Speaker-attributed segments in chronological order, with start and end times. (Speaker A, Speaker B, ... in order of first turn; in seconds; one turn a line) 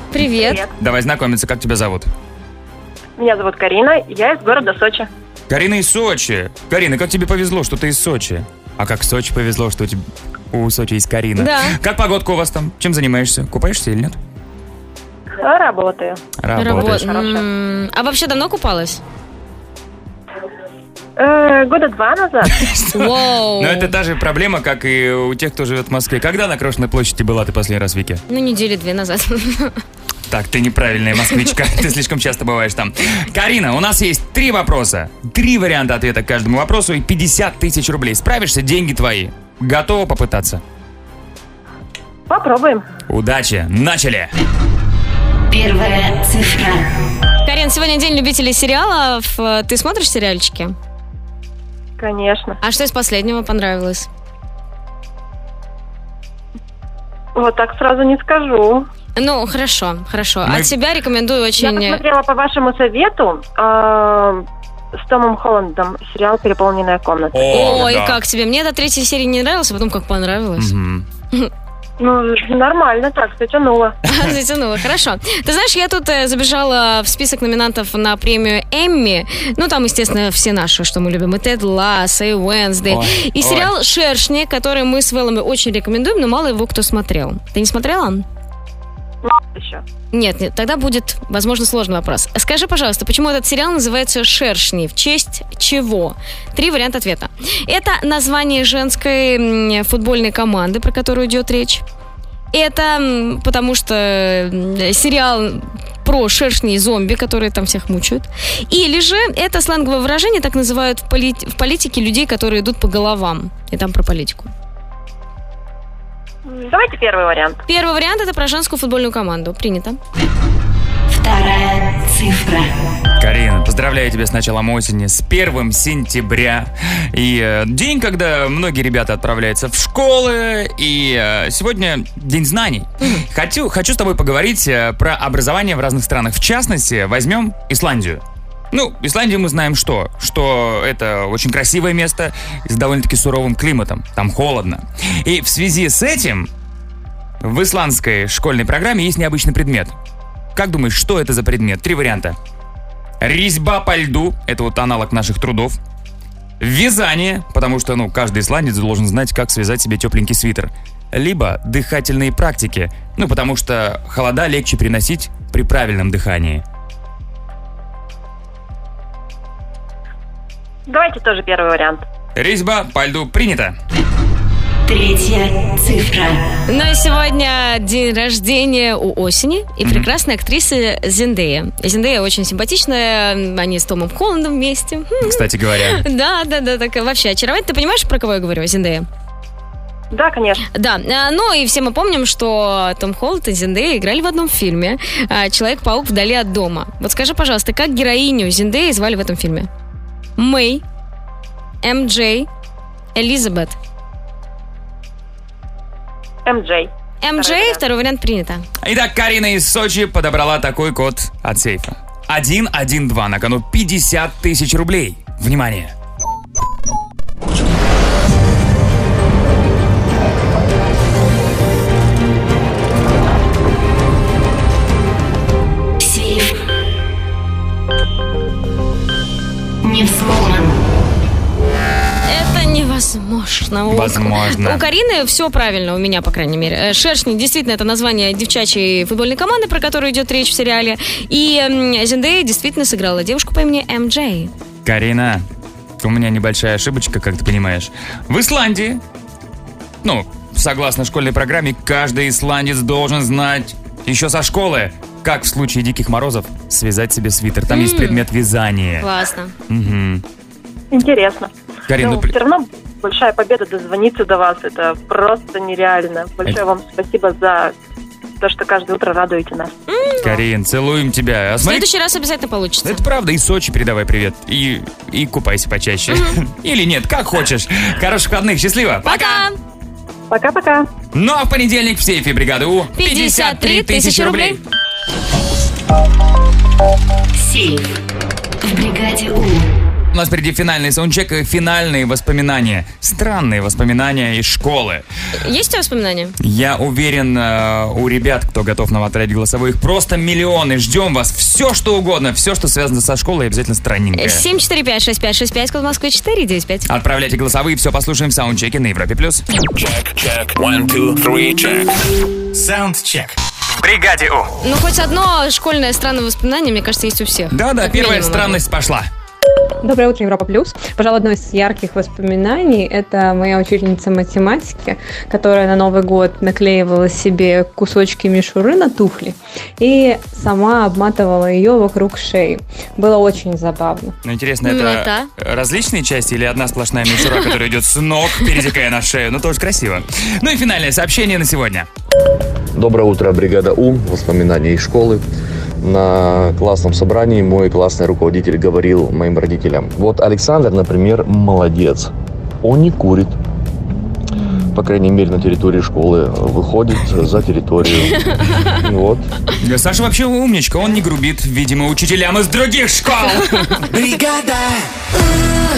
Speaker A: 0.1-0.6
Speaker B: 0.4-0.7
Speaker C: 0.6-2.1
Speaker B: 3.2-5.1
Speaker C: 5.5-14.2
Speaker A: 11.4-11.8
Speaker B: 15.4-16.2
Speaker C: 16.4-17.2
Speaker A: 16.5-19.0
Speaker B: 16.8-17.4
Speaker B: 21.2-22.5
Speaker C: 22.5-28.2
Speaker A: 22.9-23.9
Speaker A: 28.3-29.8
Speaker C: 30.3-40.6
Speaker B: 42.3-42.8
Speaker C: 43.1-44.3
Speaker D: 45.5-46.9
Speaker A: 47.4-50.7
Speaker B: 52.0-52.6
Speaker A: 52.6-54.1
Speaker B: 57.3-58.9
Speaker A: 59.1-62.0
Speaker C: 60.4-60.7
Speaker B: 61.6-64.4
Speaker B: 65.0-67.5
Speaker C: 67.3-68.2
Speaker A: 67.5-70.7
Speaker C: 70.6-71.0
Speaker B: 72.0-74.0
Speaker A: 74.0-88.2
Speaker C: 74.1-74.3
Speaker C: 82.9-83.7
Speaker B: 89.2-89.8
Speaker A: 90.1-101.8
Speaker A: 102.5-114.5
Speaker B: 116.4-117.6
Speaker A: 117.7-120.0
Speaker D: 121.1-122.7
Speaker C: 123.2-146.5
Speaker A: 133.0-133.2
Speaker C: 147.4-149.9
Speaker C: 150.5-152.4
Speaker C: 153.2-155.8
Speaker C: 156.6-166.6
Speaker B: 170.9-172.0
Speaker C: 172.3-173.8
Speaker D: 174.9-176.5
Speaker A: 176.7-189.1
Speaker C: 179.8-180.1
Speaker C: 185.2-186.0
Speaker B: 190.1-190.6
Speaker A: 190.7-199.7
Speaker A: 200.4-200.8
Speaker A: 201.8-202.5
Speaker A: 203.1-203.8
Speaker B: 206.4-207.8
Speaker A: 207.2-208.7
Speaker C: 208.8-215.9
Speaker D: 226.0-226.5
Speaker D: 229.8-230.7
Speaker A: 232.2-244.5
Speaker C: 233.9-234.9
Speaker C: 244.8-245.4
Speaker C: 246.0-249.0
Speaker C: 250.0-259.1
Speaker A: 257.7-258.2
Speaker A: 259.0-259.5
Speaker C: 259.7-260.2
Speaker B: 260.9-267.7
Speaker C: 261.9-262.3
Speaker B: 268.4-269.7
Speaker A: 269.9-270.4
Speaker C: 270.2-271.9
Speaker A: 271.6-273.0
Speaker C: 272.8-279.4
Speaker A: 276.1-276.4
Speaker A: 279.0-279.6
Speaker B: 280.3-280.9
Speaker C: 281.1-284.6
Speaker A: 282.9-284.6
Speaker D: 287.3-288.0
Speaker D: 288.6-289.7
Speaker C: 290.1-295.1
Speaker A: 295.4-296.4
Speaker C: 296.4-304.4
Speaker A: 304.1-306.9
Speaker C: 306.9-309.4
Speaker E: 309.7-314.5
Speaker A: 314.6-318.6
Speaker C: 317.5-319.1
Speaker F: 319.8-334.1
Speaker C: 334.2-341.9
Speaker A: 334.6-335.3
Speaker G: 342.7-345.2
Speaker G: 345.8-352.1
Speaker G: 352.6-353.4
Speaker G: 354.7-358.2
Speaker G: 358.7-359.3
Speaker C: 359.6-363.9
Speaker E: 363.9-364.9